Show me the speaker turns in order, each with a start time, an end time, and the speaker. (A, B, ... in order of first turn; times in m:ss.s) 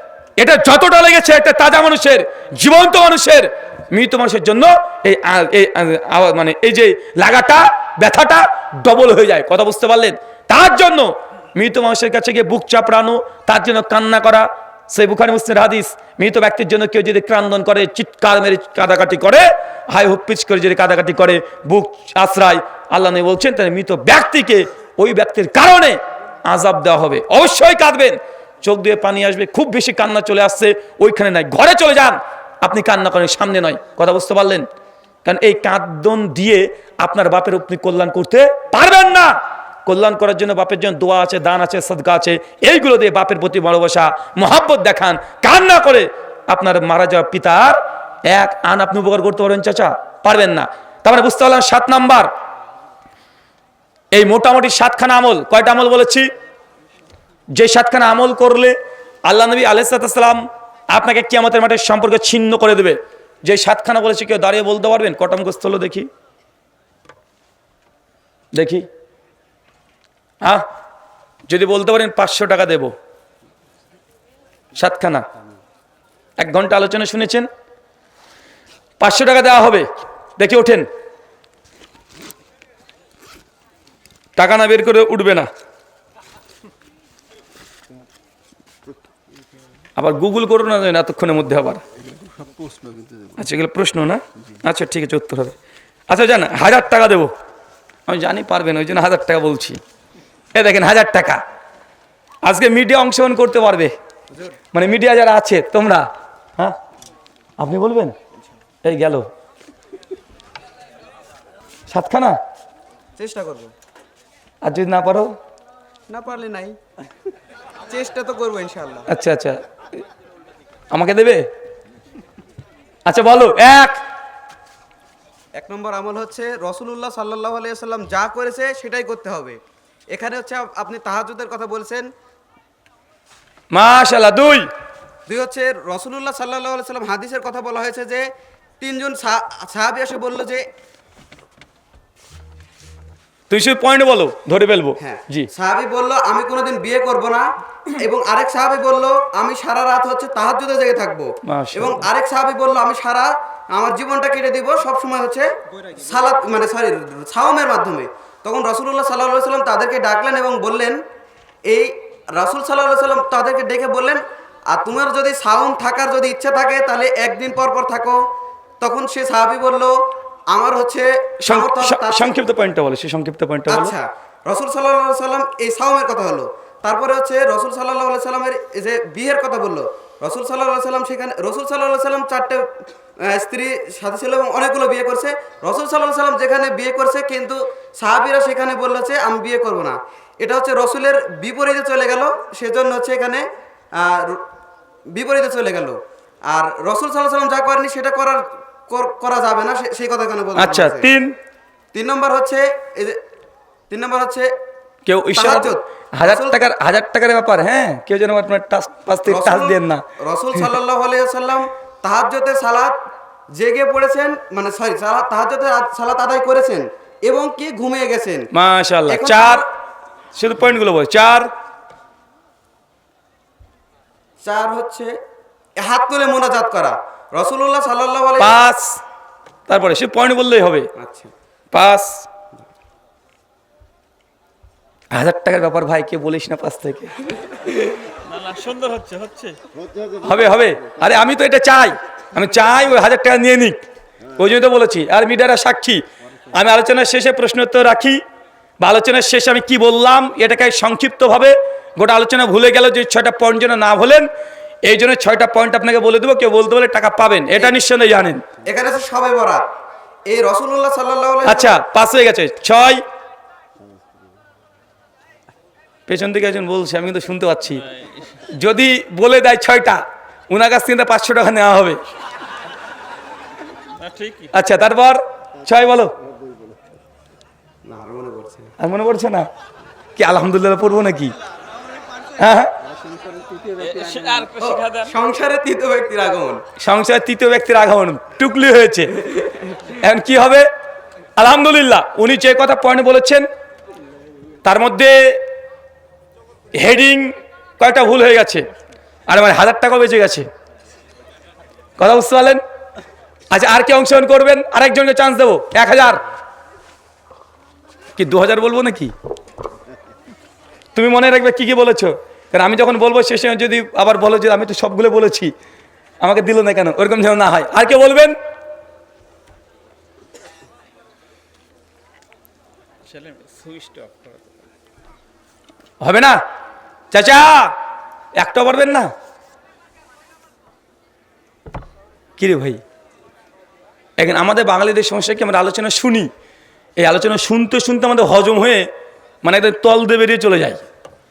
0:00.4-0:34.7 A
0:35.2-0:52.3 A
0:54.1-0:56.3 A
0:57.5-1:06.1 A
1:08.5-1:08.9 A
1:11.5-1:12.9 A
1:14.7-1:15.2 A
1:16.4-1:17.5 A
1:19.0-1:20.9 A
1:24.4-1:25.5 A
1:30.0-1:31.8 A
1:33.4-1:35.5 A
1:36.1-1:37.3 A
1:38.1-1:39.8 A
1:40.5-1:41.4 A
1:42.4-1:43.9 A
1:44.7-1:46.8 A
1:47.6-1:48.2 A
1:48.8-1:49.3 A
1:51.9-1:52.4 A
1:53.2-1:53.7 B
1:54.6-1:55.3 A
1:56.1-1:56.8 B
1:57.9-1:59.1 B
1:59.1-1:59.6 A
2:00.9-2:01.5 A
2:03.0-2:04.0 A
2:05.5-2:12.1 B
2:13.7-2:14.7 A
2:15.3-2:20.7 B
2:23.5-2:25.5 A
2:25.0-2:41.0 B
2:31.4-2:32.1 A
2:41.6-2:48.3 B
2:48.8-2:52.4 B
2:51.4-2:54.0 A
2:53.7-3:14.5 B
3:15.1-3:21.1 B
3:20.6-3:21.4 A
3:21.9-3:23.2 B
3:23.9-3:24.5 B
3:25.0-3:30.0 A
3:25.3-3:26.6 B
3:29.2-3:38.5 B
3:38.5-3:39.6 A
3:39.1-3:39.6 B
3:40.3-3:41.5 A
3:44.4-3:45.2 B
3:45.8-3:48.6 B
3:48.4-3:49.0 A
3:49.7-3:50.9 A
3:51.0-3:51.3 B
3:51.7-3:52.3 A
3:55.1-3:57.2 A
3:58.2-3:59.6 C
4:00.2-4:03.8 A
4:04.3-4:08.2 A
4:08.8-4:14.3 A
4:14.8-4:18.4 A
4:18.6-4:19.7 B
4:20.2-4:21.8 B
4:21.4-4:23.0 A
4:26.1-4:27.8 A
4:27.9-4:28.3 C
4:28.5-4:32.0 A
4:34.0-4:34.5 C
4:34.5-4:36.1 A
4:37.8-4:38.7 B
4:38.8-4:39.5 A
4:40.2-4:41.3 A
4:42.4-4:42.7 A
4:43.7-4:45.2 C
4:44.6-4:46.6 B
4:46.8-4:49.2 A
4:49.8-4:50.7 A
4:51.4-4:53.5 A
4:54.6-4:55.4 A
4:56.7-4:58.7 A
4:59.3-5:00.5 A
5:02.0-5:02.6 A
5:03.5-5:06.2 A
5:08.2-5:09.1 A
5:10.9-5:15.5 A
5:16.2-5:18.4 A
5:23.0-5:24.6 C
5:26.0-5:26.4 A
5:27.1-5:27.8 A
5:28.4-5:29.1 A
5:32.4-5:32.8 A
5:34.2-5:36.3 A
5:37.0-5:38.9 A
5:39.4-5:40.8 A